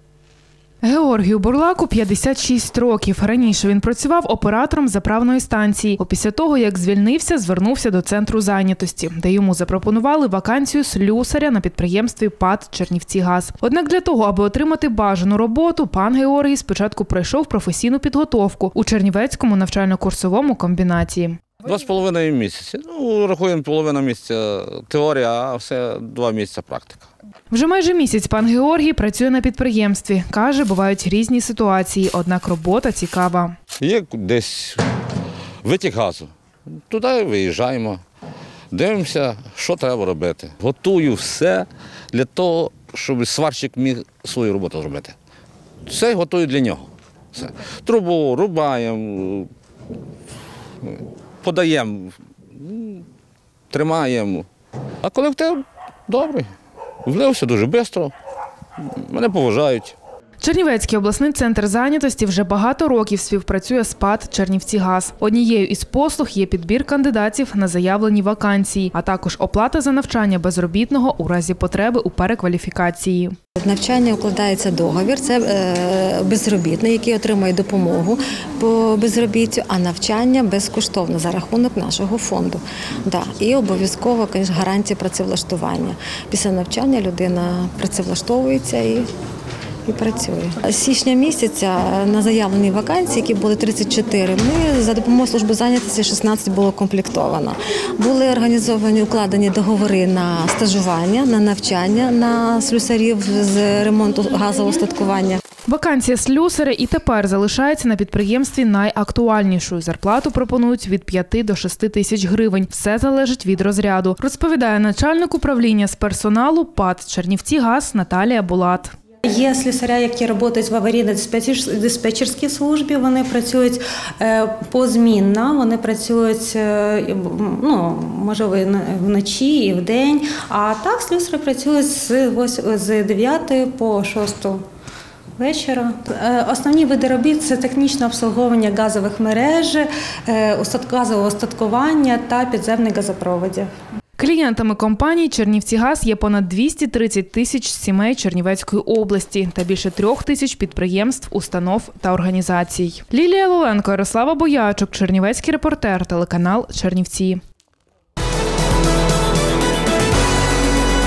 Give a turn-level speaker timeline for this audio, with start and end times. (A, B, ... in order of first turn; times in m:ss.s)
0:00.8-0:21.4 A
0:21.6-0:27.1 B
0:27.5-0:33.5 A
0:33.8-0:34.8 B
0:35.6-0:36.3 B
0:36.9-0:38.0 B
0:38.7-0:45.1 B
0:45.9-0:49.5 B
0:50.8-0:53.0 B
0:53.7-0:54.5 B
0:55.0-0:56.5 B
0:57.0-0:58.1 B
0:59.0-1:00.0 B
1:00.4-1:13.3 A
1:13.6-1:29.1 C
1:29.8-1:45.4 C
1:45.7-1:58.9 A
1:59.2-2:14.6 D
2:15.4-2:23.7 D
2:24.2-2:37.4 A